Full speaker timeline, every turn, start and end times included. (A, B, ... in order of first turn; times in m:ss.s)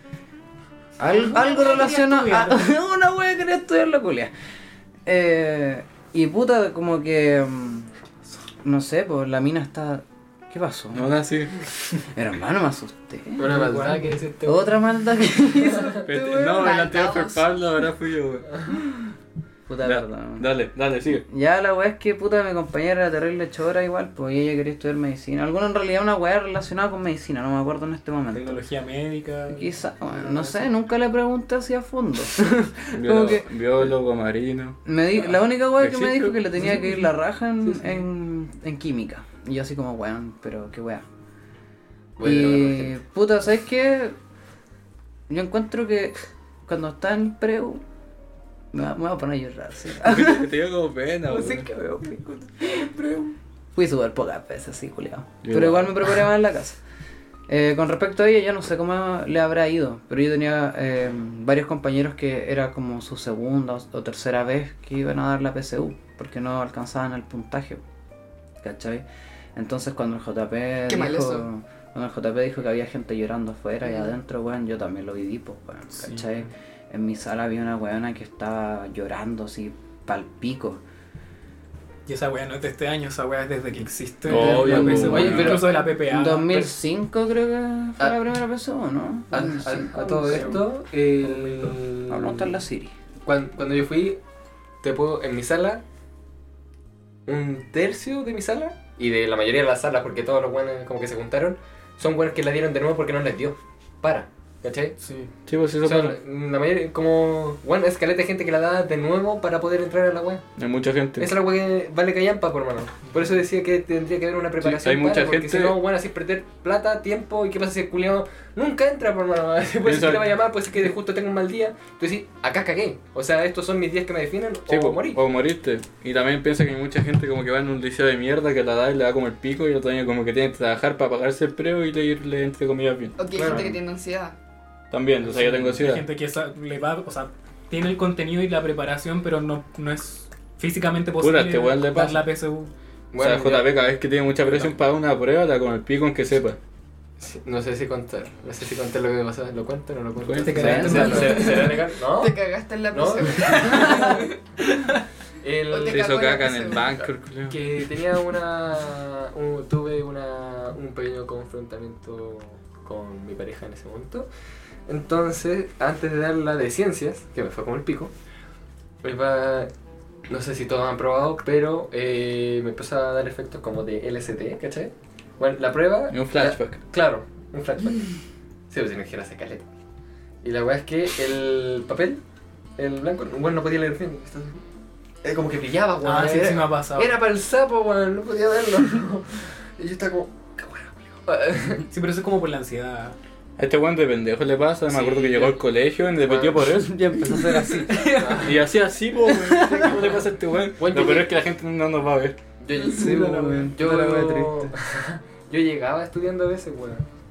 0:01.0-0:04.3 A
0:01.1-0:02.5 B
0:01.6-0:02.3 C
0:05.1-0:07.9 A
0:08.6-0:11.1 A
0:10.9-0:12.0 D
0:12.1-0:13.6 A
0:13.4-0:14.7 E
0:13.4-0:14.3 C
0:14.4-0:15.9 A
0:15.8-0:17.5 B
0:16.0-0:18.7 D
0:19.7-0:20.5 A
0:19.8-0:21.2 D
0:21.3-0:28.6 A
0:28.3-0:30.7 C
0:29.5-0:33.9 A
0:32.9-0:34.8 D
0:34.8-0:41.0 A
0:35.8-0:36.4 D
0:36.7-0:37.0 C
0:42.2-0:43.0 E
0:42.2-0:44.2 A
0:45.3-0:47.8 A
0:48.7-0:50.5 A
0:50.0-0:51.7 D
0:51.3-0:56.8 A
0:55.4-0:56.2 D
0:57.5-1:07.8 A
1:08.6-1:20.8 A
1:10.9-1:11.5 B
1:15.9-1:16.2 C
1:22.1-1:26.7 C
1:24.3-1:25.6 D
1:24.3-1:30.6 A
1:24.5-1:25.8 E
1:29.3-1:32.6 E
1:30.3-1:30.6 C
1:31.2-1:31.8 C
1:32.1-1:32.9 A
1:33.2-1:34.2 E
1:34.8-1:35.8 E
1:37.3-1:45.0 E
1:45.0-1:45.3 C
1:45.5-1:46.2 D
1:45.8-1:50.5 E
1:50.6-1:51.3 D
1:51.2-2:05.2 E
1:54.6-1:55.8 D
1:59.8-2:00.3 D
2:04.7-2:13.7 D
2:13.2-2:14.4 B
2:13.4-2:13.7 E
2:14.9-2:16.0 D
2:15.2-2:22.7 C
2:21.2-2:22.2 D
2:23.1-2:23.8 E
2:23.2-2:26.6 D
2:24.4-2:24.7 C
2:27.2-2:32.4 E
2:30.2-2:31.3 D
2:30.4-2:31.8 C
2:30.6-2:31.4 A
2:31.4-2:34.4 B
2:32.9-2:34.2 E
2:35.4-2:36.1 E
2:35.7-2:37.0 B
2:35.9-2:37.6 D
2:36.7-2:44.3 E
2:44.9-2:48.1 E
2:49.0-2:49.7 E
2:50.3-2:58.2 E
2:56.1-2:56.8 D
2:58.7-2:59.7 E
3:00.4-3:02.2 E
3:02.8-3:04.6 E
3:05.2-3:11.8 E
3:06.0-3:07.1 C
3:11.9-3:13.2 C
3:13.6-3:17.0 D
3:14.9-3:15.6 E
3:16.2-3:16.6 E
3:16.6-3:18.4 A
3:18.0-3:18.7 E
3:18.3-3:22.4 D
3:19.2-3:20.1 A
3:19.9-3:20.1 E
3:20.8-3:21.3 E
3:22.6-3:27.0 E
3:22.9-3:24.7 A